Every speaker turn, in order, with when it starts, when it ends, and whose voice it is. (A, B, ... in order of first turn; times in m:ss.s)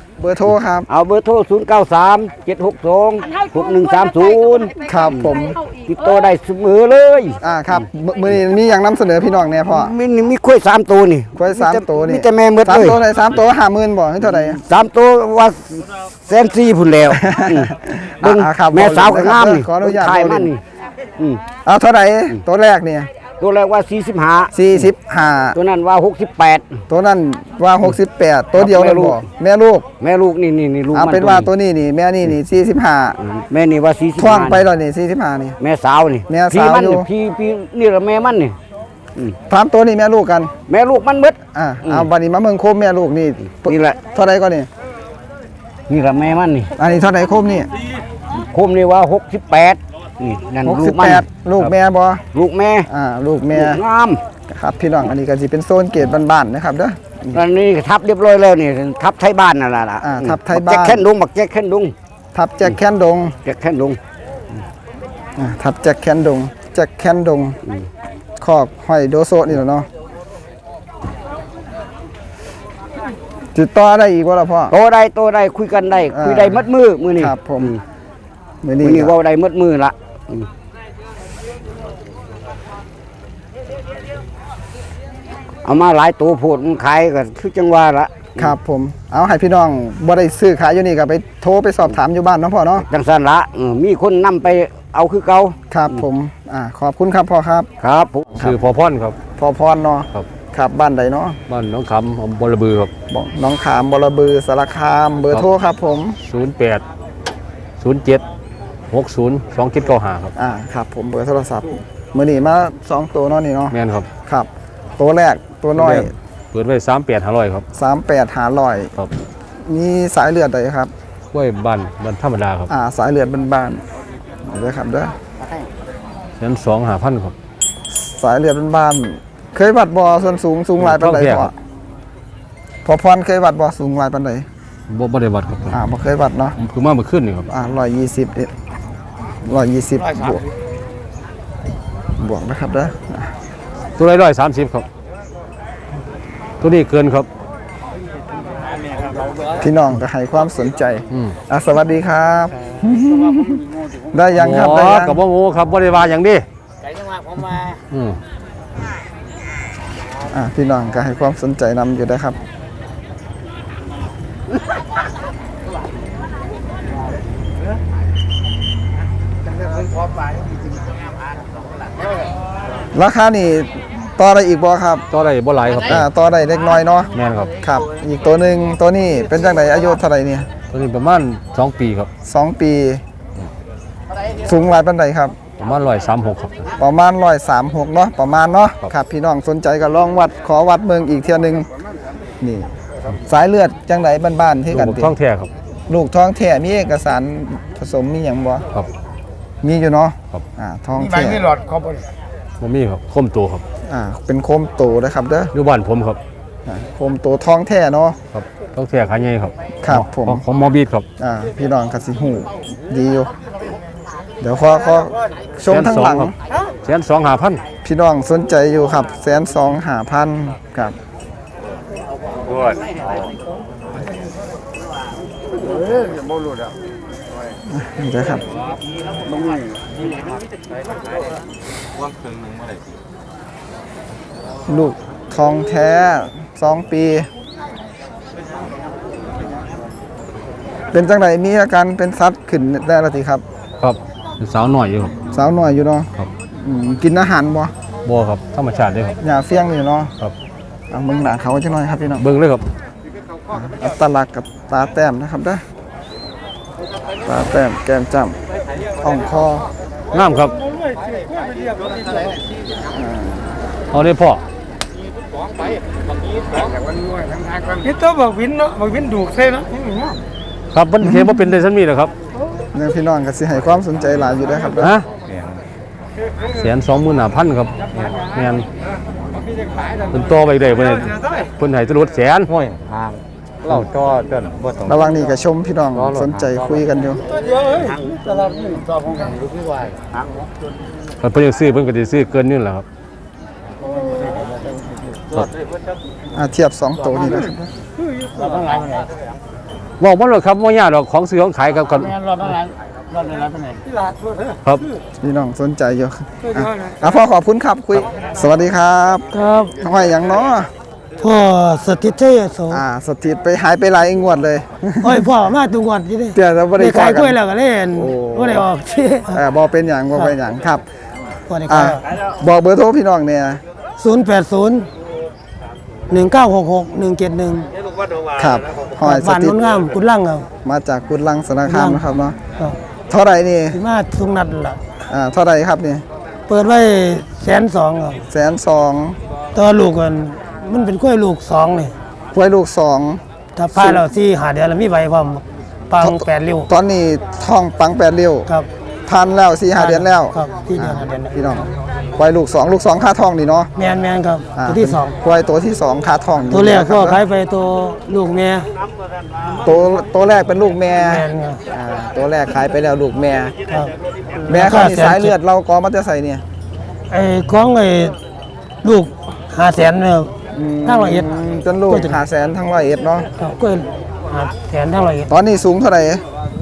0:00.2-0:00.9 A
0:00.9-0:05.2 B
0:04.9-0:05.6 A
0:05.8-0:07.4 B
0:07.4-0:10.0 A
0:09.7-0:13.0 B
0:11.4-0:14.6 A
0:14.2-0:20.6 B
0:17.1-0:20.5 A
0:21.2-0:21.4 B
0:21.6-0:23.1 A
0:23.4-0:24.9 B
0:24.5-0:25.6 A
0:25.5-0:26.8 B
0:26.9-0:29.9 A
0:28.6-0:29.2 B
0:30.0-0:31.5 B
0:30.9-0:33.2 A
0:33.2-0:34.7 B
0:34.2-0:35.6 A
0:35.6-0:38.6 B
0:36.3-0:37.1 A
0:39.5-0:40.5 A
0:40.7-0:42.1 B
0:41.5-0:44.7 A
0:43.4-0:44.0 B
0:45.9-0:46.7 B
0:46.8-0:47.7 A
0:48.3-0:51.3 B
0:50.6-0:52.3 A
0:52.3-0:52.9 B
0:52.9-0:53.8 A
0:53.5-0:54.2 B
0:54.5-0:57.4 A
0:57.3-1:02.0 B
1:00.0-1:01.1 A
1:02.3-1:03.4 A
1:03.4-1:04.0 B
1:05.4-1:07.6 A
1:08.4-1:09.9 A
1:13.5-1:14.7 A
1:14.7-1:17.8 B
1:16.1-1:17.7 A
1:18.6-1:19.2 A
1:18.8-1:20.5 B
1:25.6-1:28.5 B
1:28.4-1:32.8 A
1:32.8-1:36.0 B
1:35.7-1:37.7 A
1:37.8-1:38.3 B
1:38.3-1:38.6 A
1:38.4-1:39.2 C
1:39.4-1:41.4 A
1:41.5-1:42.9 C
1:43.1-1:46.2 A
1:46.3-1:46.8 C
1:47.8-1:48.2 C
1:48.9-1:50.3 C
1:50.4-1:56.1 A
1:53.7-1:54.1 C
1:55.8-1:57.6 C
1:57.7-1:59.0 A
1:59.6-2:00.9 A
2:01.3-2:02.7 C
2:02.7-2:03.8 A
2:04.4-2:05.2 A
2:06.4-2:07.3 C
2:07.9-2:11.5 A
2:10.8-2:11.5 C
2:12.8-2:14.5 A
2:14.9-2:15.8 C
2:15.7-2:16.6 A
2:16.6-2:17.5 C
2:17.5-2:18.5 A
2:19.4-2:20.4 A
2:22.2-2:23.3 A
2:24.0-2:24.9 C
2:26.6-2:27.3 C
2:29.5-2:35.2 A
2:34.4-2:36.4 C
2:37.9-2:38.2 C
2:40.3-2:42.4 A
2:52.9-2:55.1 A
2:55.1-2:56.1 C
2:55.9-2:57.1 A
2:57.1-2:57.5 C
2:57.6-3:00.5 A
3:00.7-3:02.1 C
3:02.2-3:03.0 A
3:04.4-3:05.4 A
3:05.6-3:06.6 C
3:06.8-3:11.7 A
3:12.4-3:15.2 A
3:14.7-3:15.5 C
3:15.9-3:18.7 A
3:19.6-3:21.6 A
3:22.6-3:23.6 C
3:23.9-3:25.5 A
3:25.5-3:26.2 C
3:26.7-3:28.2 A
3:28.3-3:31.0 C
3:29.8-3:30.4 A
3:31.2-3:33.3 A
3:34.4-3:36.4 A
3:35.7-3:37.6 C
3:37.8-3:41.0 A
3:47.7-3:48.4 A
3:54.7-3:57.3 A
4:00.9-4:03.4 A
4:03.8-4:05.2 C
4:05.3-4:07.7 A
4:08.0-4:09.2 C
4:09.2-4:10.1 A
4:10.9-4:12.2 A
4:12.2-4:12.7 C
4:13.5-4:15.6 A
4:17.2-4:18.4 A
4:19.0-4:19.7 A
4:20.1-4:20.6 C
4:22.9-4:23.6 A
4:23.9-4:24.4 C
4:30.7-4:32.1 C
4:31.0-4:31.4 A
4:32.7-4:34.9 A
4:34.8-4:35.1 C
4:35.3-4:35.6 D
4:36.6-4:37.7 C
4:38.3-4:38.7 C
4:40.1-4:42.5 C
4:42.5-4:43.1 D
4:43.7-4:45.0 D
4:44.8-4:47.2 A
4:46.0-4:46.4 D
4:51.2-4:52.8 C
4:56.3-4:57.7 A
5:00.0-5:02.6 C
5:05.2-5:09.3 A
5:09.3-5:09.8 E
5:09.8-5:10.7 A
5:11.2-5:12.8 E
5:12.7-5:15.3 A
5:15.0-5:19.4 E
5:16.3-5:17.4 A
5:17.9-5:18.7 A
5:19.3-5:20.8 A
5:21.5-5:22.0 E
5:21.7-5:23.6 A
5:24.0-5:24.9 E
5:26.1-5:27.7 E
5:28.4-5:29.6 A
5:29.0-5:30.5 E
5:30.6-5:32.4 A
5:31.7-5:32.0 E
5:33.1-5:33.8 A
5:33.7-5:34.8 E
5:35.1-5:36.0 A
5:36.5-5:38.2 E
5:38.3-5:39.2 A
5:39.5-5:42.0 E
5:42.3-5:43.2 A
5:43.6-5:46.7 E
5:43.8-5:44.0 A
5:46.0-5:48.5 A
5:49.1-5:53.7 A
5:49.8-5:51.3 E
5:53.8-5:55.2 E
5:54.6-5:57.2 A
5:56.5-5:58.7 E
5:59.6-6:03.6 A
6:01.0-6:01.6 E
6:03.7-6:03.9 E
6:04.5-6:05.3 E
6:04.5-6:06.4 A
6:07.1-6:08.2 E
6:08.8-6:10.3 E
6:10.5-6:13.3 A
6:10.9-6:11.3 E
6:11.9-6:12.2 E
6:13.4-6:15.3 E
6:15.3-6:16.2 A